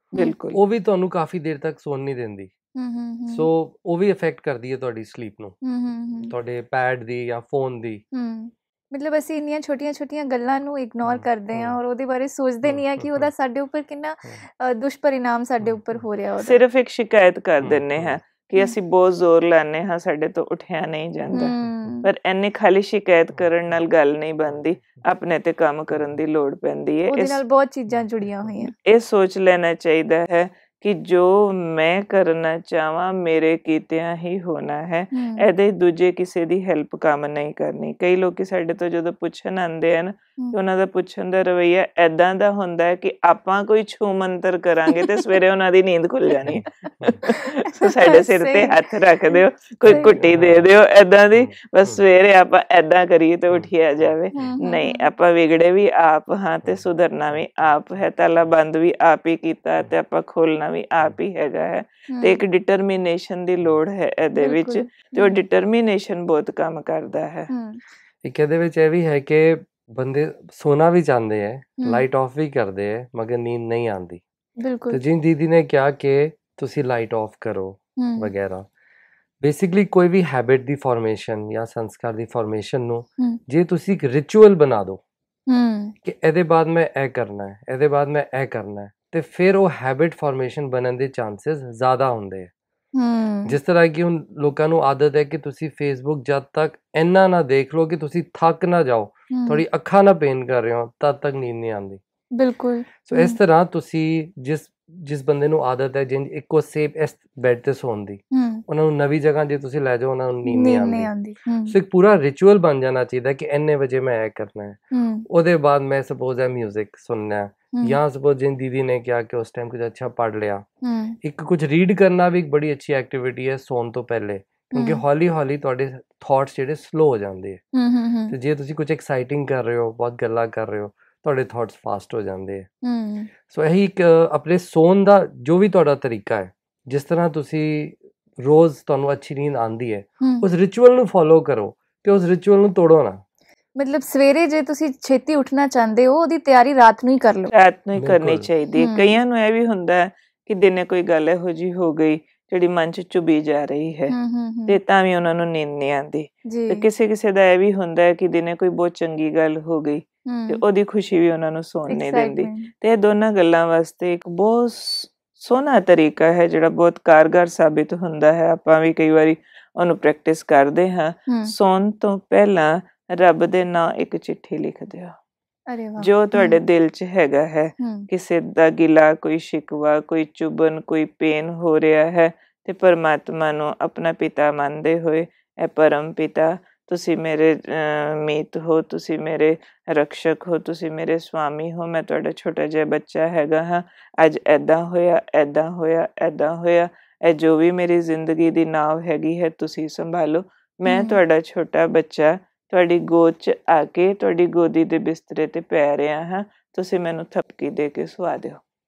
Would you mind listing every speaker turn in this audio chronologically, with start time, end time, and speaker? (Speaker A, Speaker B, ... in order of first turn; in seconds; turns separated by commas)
Speaker A: 0.1-0.6, Speaker B: 0.5-2.5, Speaker C: 2.8-3.5, Speaker B: 3.3-5.5, Speaker C: 5.6-6.3, Speaker B: 6.3-8.0, Speaker C: 8.1-16.6, Speaker B: 11.0-11.8, Speaker B: 12.6-13.3, Speaker B: 15.6-16.0, Speaker A: 16.4-21.5, Speaker B: 17.6-18.2, Speaker B: 21.3-21.9, Speaker C: 21.3-22.1, Speaker A: 22.0-27.4, Speaker B: 24.5-25.0, Speaker C: 27.1-28.7, Speaker B: 27.9-28.6, Speaker A: 28.8-67.5, Speaker C: 35.1-35.5, Speaker C: 44.9-45.3, Speaker B: 46.5-47.2, Speaker C: 46.8-50.2, Speaker B: 49.8-50.7, Speaker B: 51.4-52.0, Speaker B: 53.5-54.5, Speaker C: 54.3-55.1, Speaker C: 62.1-62.4, Speaker C: 64.4-65.4, Speaker C: 67.5-67.8, Speaker B: 68.2-74.2, Speaker C: 74.6-75.0, Speaker B: 74.9-78.7, Speaker C: 78.0-78.3, Speaker B: 79.4-85.0, Speaker C: 85.5-85.9, Speaker B: 86.0-92.5, Speaker C: 92.9-93.6, Speaker B: 93.5-102.0, Speaker C: 99.3-99.6, Speaker C: 102.4-103.4, Speaker B: 103.0-111.1, Speaker C: 108.3-108.6, Speaker C: 110.4-111.7, Speaker B: 111.7-120.7, Speaker C: 114.9-115.2, Speaker C: 120.8-121.2, Speaker B: 121.2-127.6, Speaker C: 124.7-125.0, Speaker C: 127.7-128.3, Speaker B: 128.3-132.7, Speaker C: 132.8-133.3, Speaker B: 133.5-143.2, Speaker C: 140.2-140.4, Speaker C: 143.8-147.5, Speaker A: 147.5-154.1, Speaker B: 148.0-148.5, Speaker C: 148.8-149.2, Speaker C: 154.1-154.8, Speaker A: 154.7-175.1, Speaker C: 156.5-156.8, Speaker C: 160.2-160.6, Speaker C: 161.9-162.7, Speaker C: 175.7-176.6, Speaker A: 176.0-208.6, Speaker C: 177.8-178.1, Speaker C: 200.9-201.2